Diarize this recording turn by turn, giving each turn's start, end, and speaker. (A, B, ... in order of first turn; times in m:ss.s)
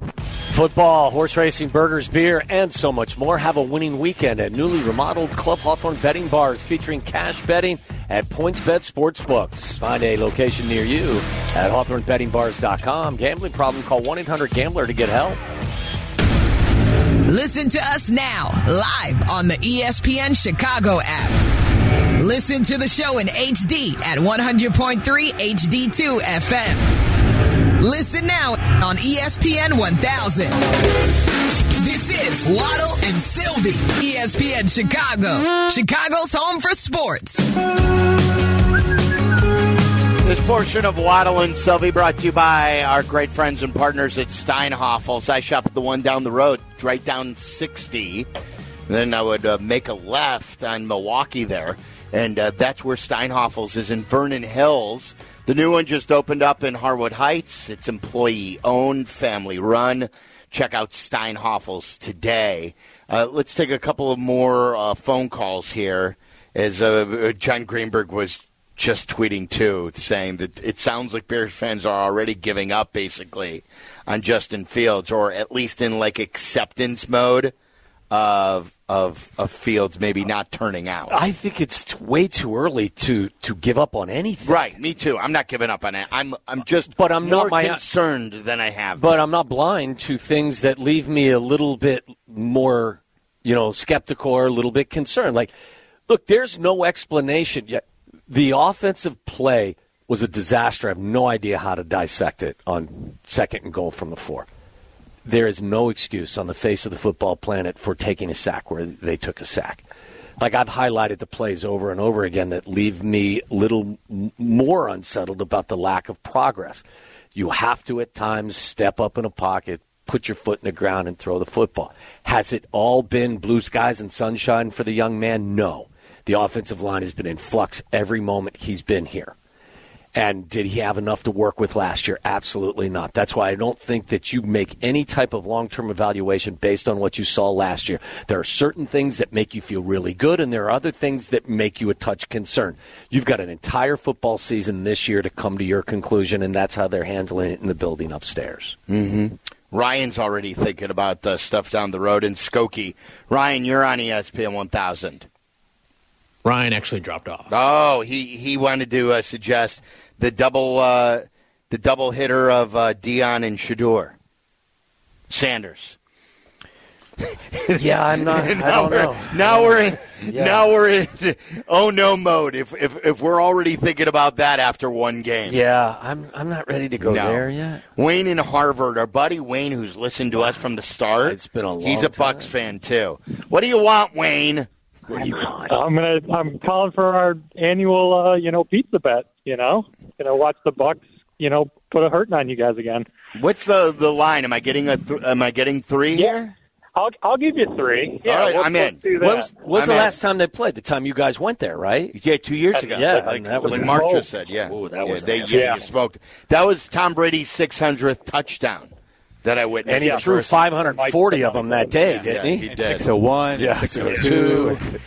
0:00.5-0:15.4 A
0:17.3-0:21.4 B
0:22.2-0:26.8 B
0:27.8-0:30.6 B
0:31.8-0:37.4 B
0:40.2-0:48.3 C
0:48.9-1:17.5 C
1:18.1-1:21.2 C
1:21.1-1:24.7 A
1:24.4-1:29.1 C
1:27.0-1:27.8 A
1:29.0-1:35.5 A
1:36.1-1:44.5 A
1:45.2-1:49.8 A
1:50.4-1:56.8 A
1:57.4-2:09.4 A
2:10.1-2:28.8 A
2:28.9-2:35.3 C
2:36.4-2:37.5 D
2:37.5-2:44.2 C
2:45.3-2:46.0 C
2:47.5-2:55.6 C
2:47.7-2:50.6 A
2:55.5-2:57.8 A
2:57.0-3:04.7 C
3:01.2-3:02.5 A
3:05.1-3:05.8 A
3:05.7-3:13.1 E
3:13.4-3:16.5 C
3:16.1-3:16.4 E
3:17.0-3:19.5 E
3:18.2-3:19.0 C
3:19.2-3:22.2 A
3:19.7-3:20.2 C
3:22.1-3:30.7 C
3:22.7-3:24.0 A
3:23.8-3:24.2 E
3:24.6-3:25.8 D
3:25.5-3:25.8 E
3:29.9-3:32.7 A
3:30.0-3:30.2 E
3:30.8-3:31.9 E
3:32.0-3:33.1 C
3:32.7-3:34.8 D
3:33.5-3:34.8 A